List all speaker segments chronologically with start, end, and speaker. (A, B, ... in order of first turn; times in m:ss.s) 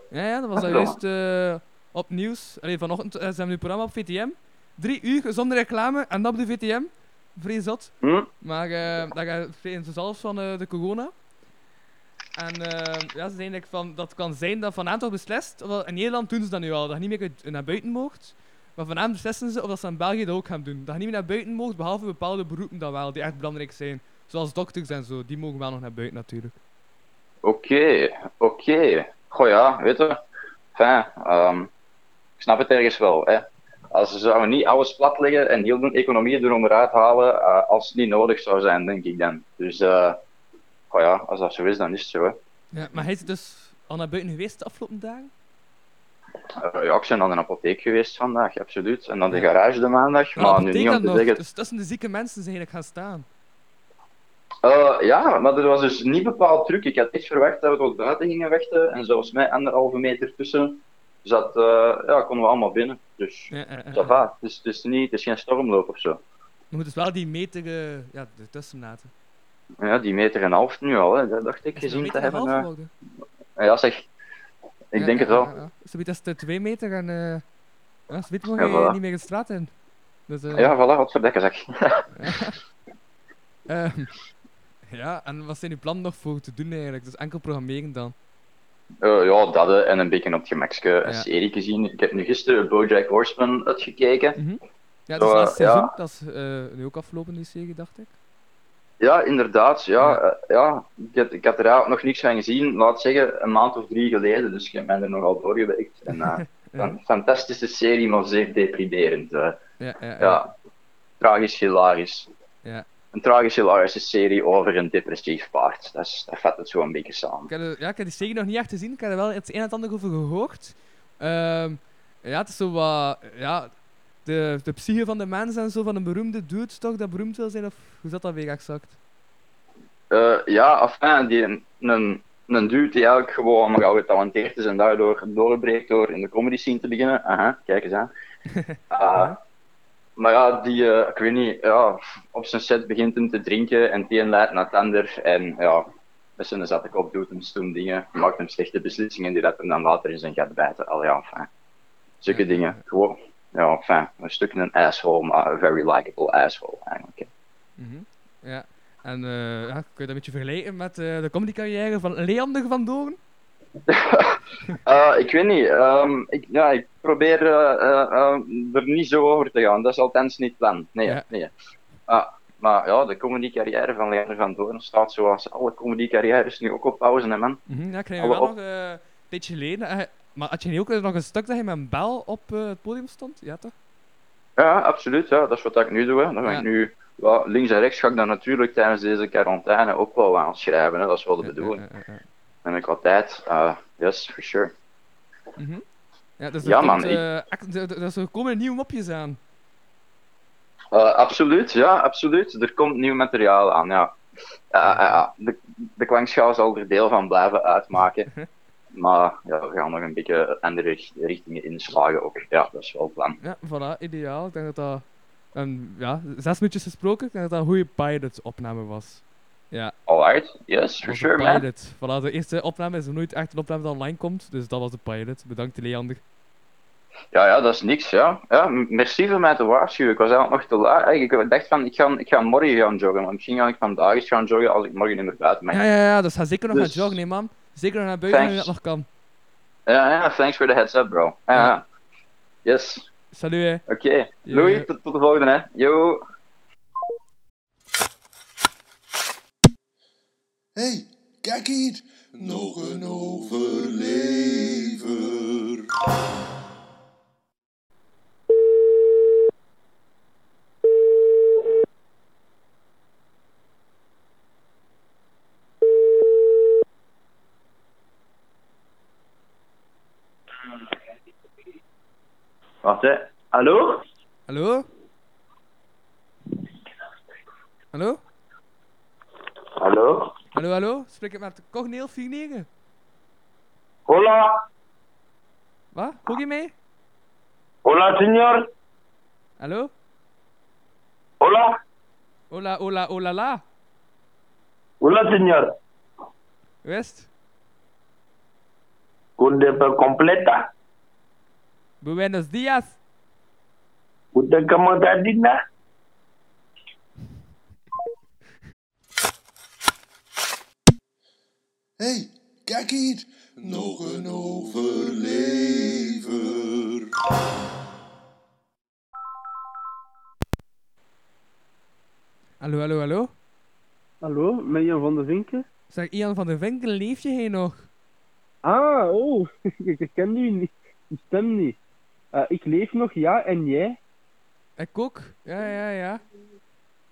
0:00.1-0:11.1 A
0:00.6-0:00.9 B
0:08.0-0:08.3 B
0:12.4-0:26.6 A
0:27.4-0:30.2 B
0:30.7-0:31.7 B
0:32.4-0:40.2 B
0:40.9-0:42.4 B
0:42.7-0:45.3 A
0:46.6-0:51.4 B
0:50.4-0:53.3 A
0:54.6-1:06.2 B
1:03.5-1:04.2 A
1:06.7-1:09.1 A
1:09.8-1:12.7 B
1:11.8-1:12.9 A
1:13.6-1:14.1 B
1:14.9-1:15.5 B
1:15.0-1:17.4 A
1:18.1-1:19.7 A
1:18.6-1:19.0 B
1:20.3-1:20.7 A
1:20.5-1:22.0 B
1:22.2-1:22.6 A
1:23.7-1:24.1 A
1:24.9-1:28.1 A
1:29.0-1:34.4 B
1:34.4-1:38.1 A
1:35.2-1:35.9 B
1:39.0-1:49.6 B
1:46.1-1:46.9 A
1:49.8-1:50.4 A
1:50.2-1:50.5 B
1:51.2-1:52.3 B
1:53.1-1:57.5 B
1:57.5-2:08.9 A
2:10.1-2:18.1 B
2:18.5-2:19.4 A
2:18.9-2:19.3 B
2:20.2-2:31.5 B
2:32.2-2:37.3 B
2:32.3-2:32.8 A
2:37.8-2:43.2 A
2:43.9-2:51.5 B
2:52.1-2:57.6 B
2:57.7-3:03.7 A
2:58.2-2:58.5 B
3:04.6-3:11.8 B
3:11.4-3:12.2 A
3:12.6-3:14.7 B
3:15.6-3:15.9 A
3:16.4-3:19.4 A
3:16.6-3:17.2 B
3:20.9-3:24.2 B
3:24.7-3:28.3 B
3:24.8-3:25.2 A
3:28.9-3:33.4 B
3:33.4-3:39.9 A
3:40.1-3:41.6 B
3:41.0-3:46.2 A
3:47.3-3:55.8 B
3:55.7-3:59.1 A
3:56.7-3:57.1 B
3:58.3-3:58.7 B
3:59.9-4:01.8 B
4:02.6-4:03.0 B
4:03.3-4:03.8 A
4:03.9-4:06.2 B
4:04.5-4:04.9 A
4:10.8-4:15.9 C
4:32.9-4:34.0 D
4:34.5-4:34.9 A
4:37.9-4:38.2 A
4:39.8-4:40.3 D
4:40.5-4:42.7 A
4:44.1-4:44.6 D
4:45.9-4:46.7 A
4:47.8-4:48.6 D
4:49.6-4:49.9 A
4:51.4-4:51.7 D
4:52.5-4:53.6 A
4:55.0-4:55.7 D
4:56.8-4:57.3 A
4:59.4-5:00.7 D
5:02.0-5:03.0 A
5:04.3-5:05.6 D
5:12.0-5:17.1 C
5:22.6-5:23.3 A
5:24.2-5:25.6 E
5:25.9-5:27.9 A
5:28.6-5:30.7 E
5:31.3-5:31.7 E
5:32.4-5:33.9 E
5:34.8-5:36.2 A